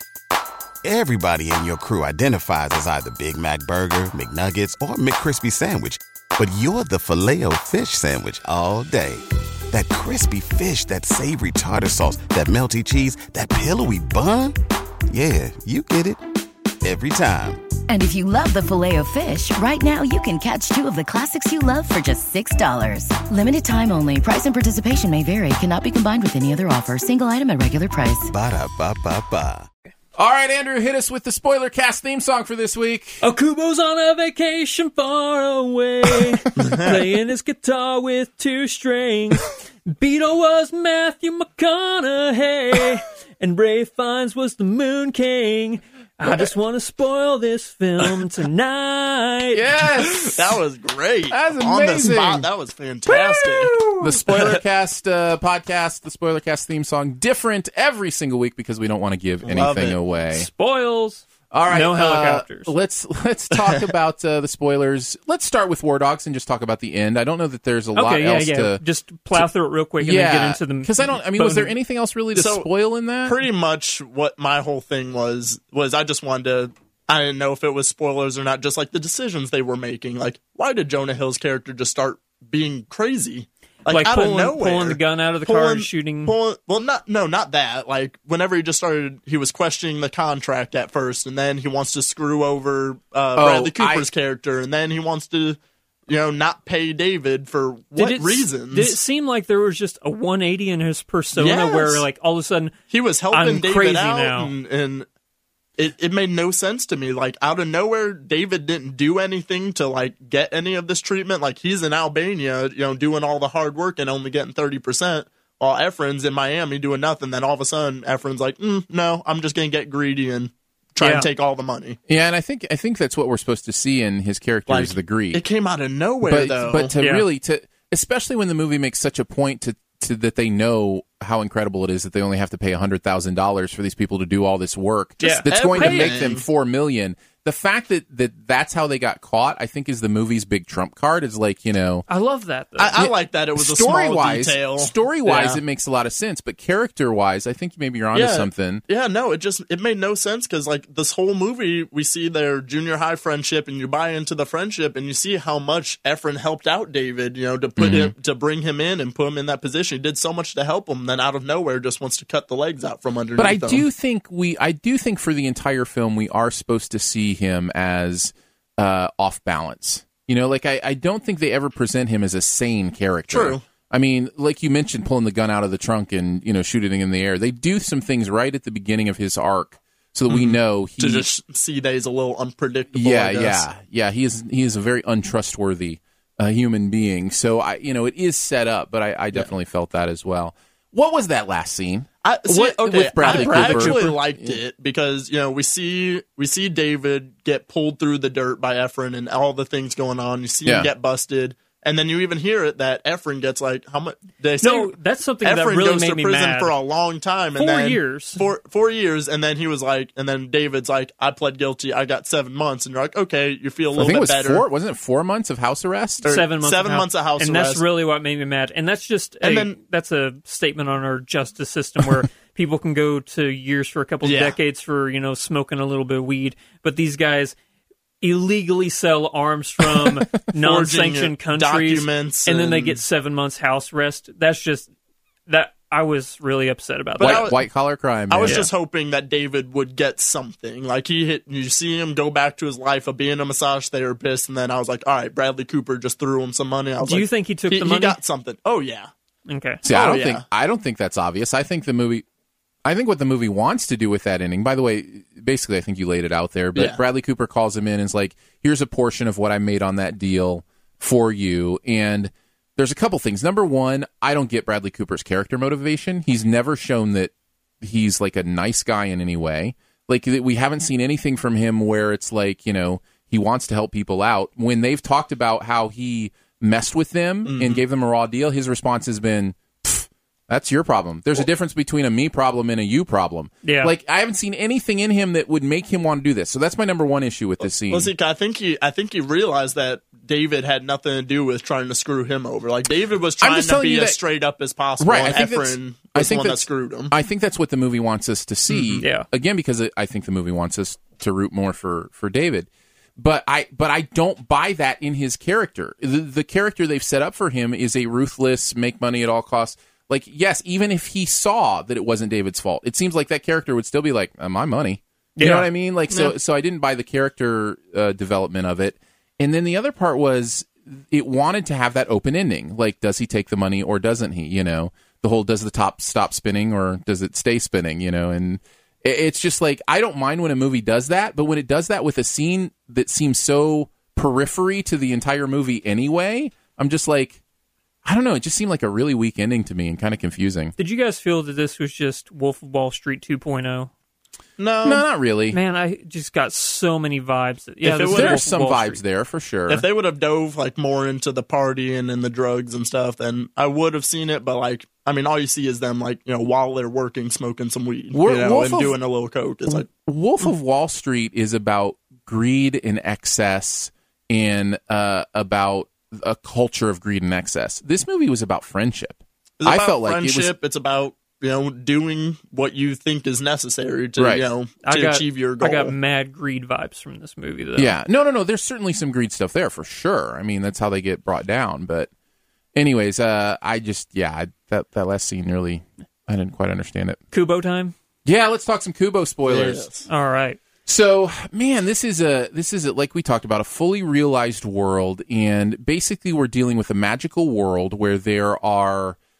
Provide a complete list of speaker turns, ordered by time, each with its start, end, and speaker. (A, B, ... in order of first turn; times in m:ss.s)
0:00.8-0:14.5 A
0:15.1-0:16.2 A
0:16.8-0:17.6 A
0:17.9-0:28.3 B
0:28.3-0:29.7 A
0:30.2-0:33.2 C
0:33.2-0:49.7 D
0:36.6-0:37.0 E
0:49.5-0:50.6 C
0:50.2-0:54.6 E
0:51.3-0:52.4 C
0:53.1-0:54.0 D
0:54.0-1:00.5 C
0:59.4-1:00.0 E
1:00.3-1:02.7 D
1:01.5-1:08.8 C
1:07.9-1:11.7 D
1:10.0-1:13.4 C
1:12.3-1:12.7 E
1:13.2-1:39.0 E
1:23.9-1:26.3 D
1:33.4-1:34.1 C
1:38.0-1:42.8 D
1:41.4-1:42.0 E
1:42.9-1:45.1 E
1:43.3-1:44.5 D
1:45.8-2:02.0 E
2:01.0-2:01.3 D
2:02.1-2:05.4 C
2:04.7-2:06.9 E
2:06.2-2:22.0 C
2:07.0-2:07.3 D
2:15.2-2:16.2 D
2:15.2-2:16.4 E
2:22.1-2:23.0 D
2:22.8-2:25.6 E
2:23.0-2:28.8 C
2:28.1-2:43.8 E
2:37.8-2:38.1 C
2:43.4-3:01.2 C
2:53.3-2:53.6 E
3:00.3-3:03.6 E
3:02.9-3:14.6 C
3:12.2-3:34.6 E
3:13.2-3:14.1 D
3:20.6-3:20.9 C
3:24.6-3:26.7 D
3:27.6-3:28.4 D
3:33.9-3:36.2 C
3:36.2-3:37.8 E
3:36.2-3:47.6 D
3:39.4-3:39.8 E
3:44.2-3:44.6 E
3:48.2-3:54.9 D
3:50.6-3:53.0 E
3:55.5-3:57.6 D
3:57.2-3:57.6 E
3:57.2-3:58.6 C
3:58.3-4:09.1 E
3:58.4-3:58.7 D
4:07.0-4:08.2 D
4:09.5-4:09.8 D
4:09.8-4:12.2 C
4:09.9-4:10.4 E
4:12.8-4:48.1 C
4:37.4-4:37.8 E
4:43.6-4:43.9 D
4:47.9-4:57.1 E
4:53.4-4:54.2 C
4:55.0-5:37.4 C
4:58.7-4:59.0 E
4:59.0-4:59.3 D
5:15.4-5:15.7 D
5:38.0-5:40.7 C
5:40.8-5:43.9 D
5:44.6-5:45.0 E
5:44.8-5:45.6 C
5:45.5-5:49.0 D
5:47.8-5:48.4 E
5:48.0-5:49.8 C
5:49.7-5:59.9 E
5:58.1-5:58.9 C
5:59.7-6:10.5 C
6:09.6-6:15.9 E
6:14.2-6:14.5 C
6:14.8-6:17.9 D
6:17.8-6:22.1 C
6:22.7-6:27.2 C
6:27.3-6:27.9 D
6:28.2-6:29.9 C
6:29.4-6:30.1 E
6:30.1-6:30.6 D
6:30.8-6:39.2 C